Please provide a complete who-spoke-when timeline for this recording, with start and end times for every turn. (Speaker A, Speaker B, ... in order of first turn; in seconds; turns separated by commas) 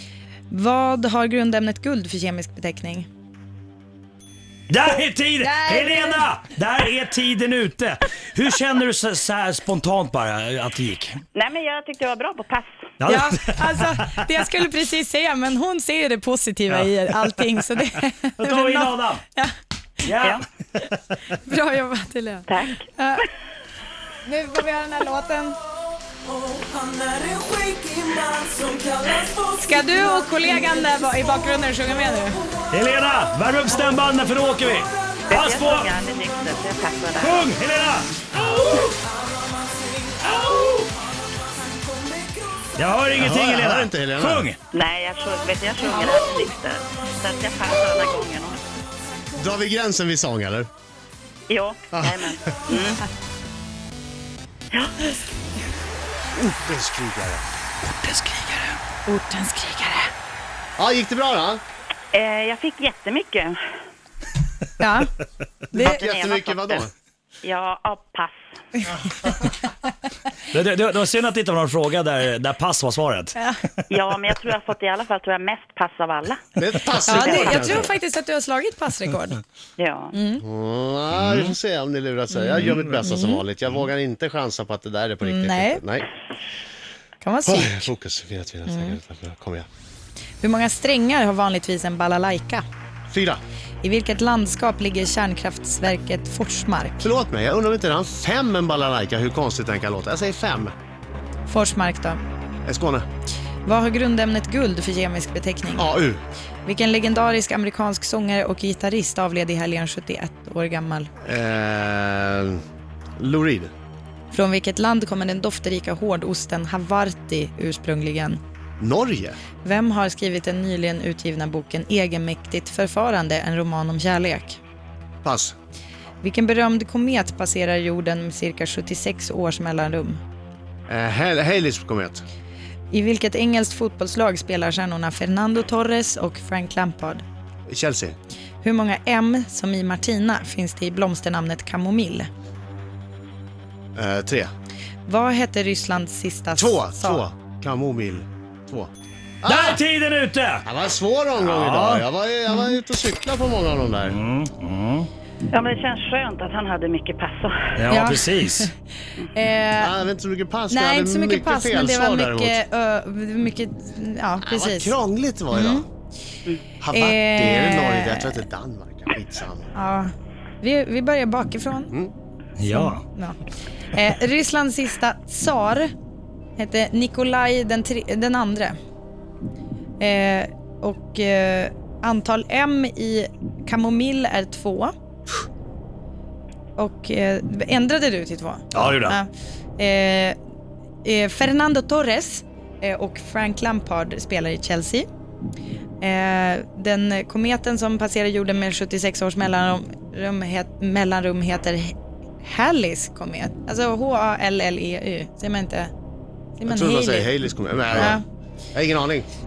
Speaker A: 0.5-3.1, Speaker B: 4.7-11.2, Speaker A: 5.4-6.3, Speaker C: 11.3-12.8, Speaker B: 13.0-14.3, Speaker A: 13.1-19.5, Speaker B: 18.4-19.2, Speaker B: 20.1-21.0, Speaker A: 21.3-23.2, Speaker C: 22.5-22.8, Speaker A: 24.2-25.6, Speaker B: 26.9-27.9, Speaker A: 29.3-32.4, Speaker B: 32.7-35.9, Speaker C: 35.3-37.5, Speaker B: 37.2-38.8, Speaker B: 40.5-40.7, Speaker B: 42.8-44.6, Speaker D: 43.2-44.5, Speaker C: 44.7-48.6, Speaker D: 49.4-50.7, Speaker C: 51.5-53.0, Speaker D: 51.9-52.6, Speaker D: 56.4-57.4, Speaker B: 57.9-58.8, Speaker A: 59.1-60.1, Speaker D: 60.8-61.6, Speaker C: 62.1-63.6, Speaker A: 64.8-65.1, Speaker D: 65.7-66.9, Speaker A: 65.7-66.0, Speaker C: 65.8-66.9, Speaker C: 67.4-68.4, Speaker B: 70.5-73.4, Speaker A: 73.4-73.6, Speaker C: 73.9-76.4, Speaker D: 76.6-77.9, Speaker A: 77.0-79.4, Speaker C: 77.1-77.6, Speaker C: 79.8-80.1, Speaker A: 80.1-80.4, Speaker D: 80.4-86.1, Speaker B: 81.1-81.5, Speaker A: 82.3-83.4, Speaker A: 85.2-85.8, Speaker A: 87.2-87.9, Speaker D: 87.5-89.7, Speaker A: 88.7-89.0, Speaker A: 90.4-92.6, Speaker D: 93.1-93.4, Speaker A: 93.8-97.1, Speaker D: 97.0-100.7, Speaker A: 101.5-102.2, Speaker D: 102.7-103.1, Speaker A: 103.7-105.9, Speaker D: 105.8-106.2, Speaker A: 106.7-111.1, Speaker D: 111.2-112.6, Speaker D: 113.2-113.7, Speaker A: 114.3-118.4, Speaker D: 118.8-119.4, Speaker A: 119.6-124.6, Speaker D: 125.2-125.6, Speaker A: 126.2-130.2, Speaker D: 130.9-132.2, Speaker A: 132.9-137.2, Speaker D: 137.7-138.2, Speaker A: 138.6-142.3, Speaker D: 143.9-144.5, Speaker A: 145.1-147.2, Speaker D: 146.6-148.9, Speaker D: 149.4-149.8, Speaker B: 149.5-150.7, Speaker D: 150.7-154.2, Speaker B: 151.4-152.0, Speaker B: 154.1-155.1, Speaker C: 155.5-157.7, Speaker B: 157.8-158.7, Speaker A: 157.9-158.7, Speaker A: 159.3-159.9, Speaker D: 159.8-162.6, Speaker A: 160.7-164.9, Speaker D: 164.4-165.9, Speaker A: 165.5-165.8, Speaker D: 166.8-169.7, Speaker A: 166.9-168.4, Speaker A: 169.8-171.9, Speaker B: 172.6-173.0, Speaker A: 172.7-173.4, Speaker A: 173.9-175.9, Speaker A: 176.6-178.8, Speaker A: 180.0-184.9, Speaker A: 186.8-190.4, Speaker B: 188.7-189.2, Speaker A: 191.0-195.1, Speaker A: 196.0-205.9, Speaker A: 206.6-207.3, Speaker D: 206.7-208.2, Speaker A: 208.0-208.2, Speaker D: 208.7-209.3